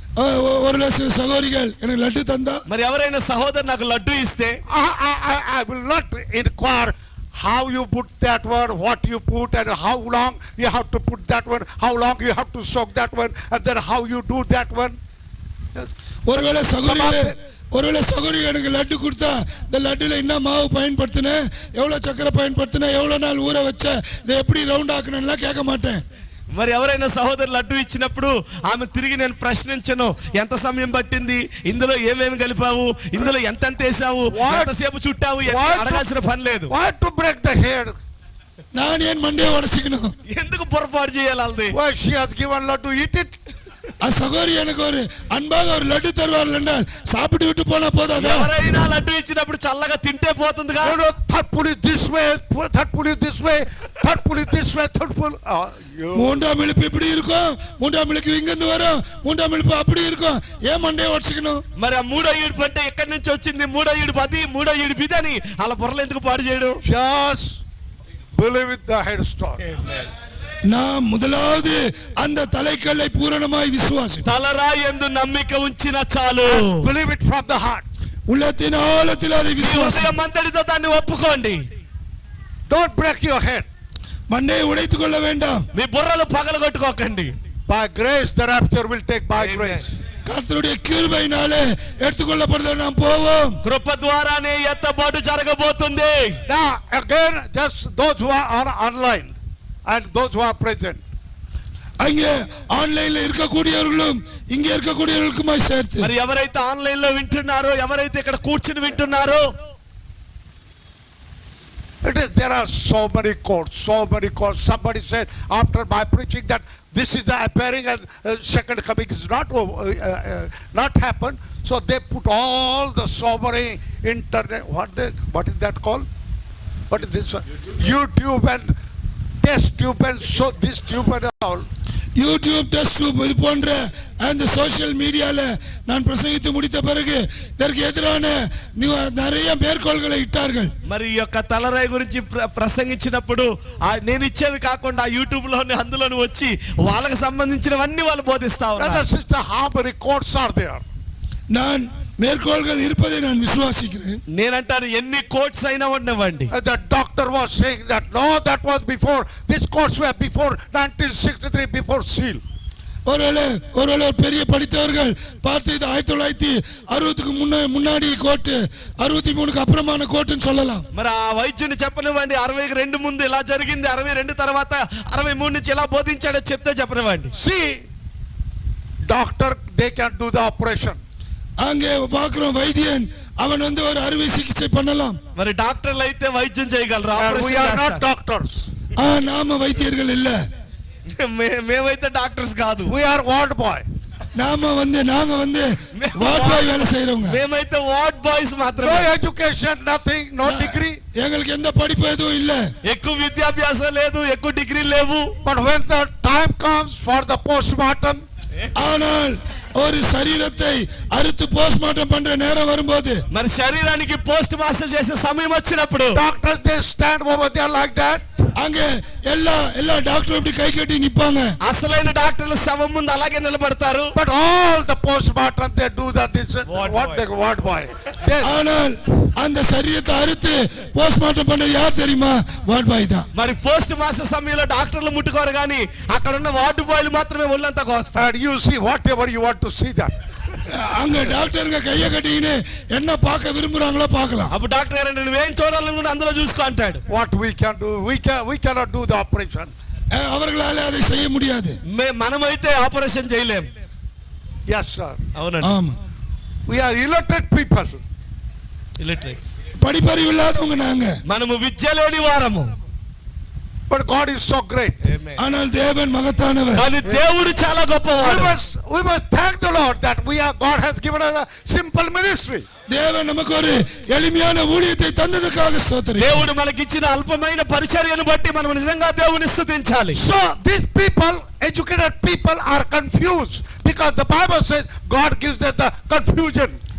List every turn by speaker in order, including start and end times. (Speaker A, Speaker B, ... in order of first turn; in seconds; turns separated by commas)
Speaker A: 0.2-2.6, Speaker B: 2.7-4.6, Speaker C: 4.7-15.0, Speaker A: 16.3-26.0, Speaker C: 16.8-17.3, Speaker B: 26.5-36.7, Speaker C: 34.3-34.7, Speaker C: 35.4-36.0, Speaker C: 36.7-38.0, Speaker A: 38.8-40.1, Speaker B: 40.3-41.8, Speaker C: 41.7-43.4, Speaker A: 44.0-48.5, Speaker B: 48.2-51.0, Speaker C: 50.8-56.4, Speaker A: 56.1-61.6, Speaker B: 61.8-66.8, Speaker C: 66.8-67.6, Speaker C: 68.3-69.6, Speaker A: 70.7-74.3, Speaker B: 74.2-76.9, Speaker C: 76.4-77.8, Speaker A: 78.3-80.1, Speaker B: 79.6-81.6, Speaker C: 82.7-83.7, Speaker A: 84.3-85.6, Speaker B: 85.7-87.3, Speaker C: 87.7-89.9, Speaker B: 89.4-89.8, Speaker A: 90.2-93.6, Speaker B: 93.6-96.4, Speaker C: 96.5-101.0, Speaker A: 102.0-106.1, Speaker B: 106.0-109.5, Speaker C: 112.0-126.1, Speaker C: 126.9-128.7, Speaker C: 129.4-131.7, Speaker A: 132.2-140.7, Speaker B: 140.8-149.0, Speaker C: 148.8-150.8, Speaker A: 151.5-154.2, Speaker B: 154.3-156.5, Speaker C: 156.5-162.4, Speaker A: 163.1-170.8, Speaker B: 170.9-177.3, Speaker C: 177.3-177.8, Speaker C: 179.1-181.0, Speaker A: 181.6-185.2, Speaker B: 185.3-188.0, Speaker C: 187.2-188.7, Speaker A: 189.0-190.4, Speaker B: 191.1-192.9, Speaker C: 192.8-193.8, Speaker A: 194.3-197.4, Speaker B: 196.0-199.1, Speaker C: 198.8-201.0, Speaker A: 200.4-202.6, Speaker B: 202.8-205.3, Speaker C: 205.4-208.2, Speaker A: 208.8-213.2, Speaker B: 213.3-216.2, Speaker C: 216.1-218.2, Speaker A: 218.6-221.5, Speaker B: 221.6-224.1, Speaker C: 224.1-228.5, Speaker B: 226.7-227.2, Speaker A: 228.4-233.3, Speaker B: 233.3-238.3, Speaker C: 238.2-240.1, Speaker A: 240.7-244.5, Speaker B: 244.5-247.0, Speaker C: 247.1-249.7, Speaker A: 250.1-251.8, Speaker B: 251.9-253.7, Speaker C: 254.7-255.2, Speaker B: 255.3-255.7, Speaker A: 255.6-256.0, Speaker C: 256.7-258.0, Speaker B: 259.0-259.5, Speaker A: 259.8-261.2, Speaker B: 261.3-262.7, Speaker C: 263.9-265.0, Speaker B: 265.0-265.4, Speaker A: 265.4-266.9, Speaker B: 266.8-268.6, Speaker C: 268.2-272.7, Speaker A: 272.9-276.4, Speaker B: 276.2-280.2, Speaker C: 280.1-286.8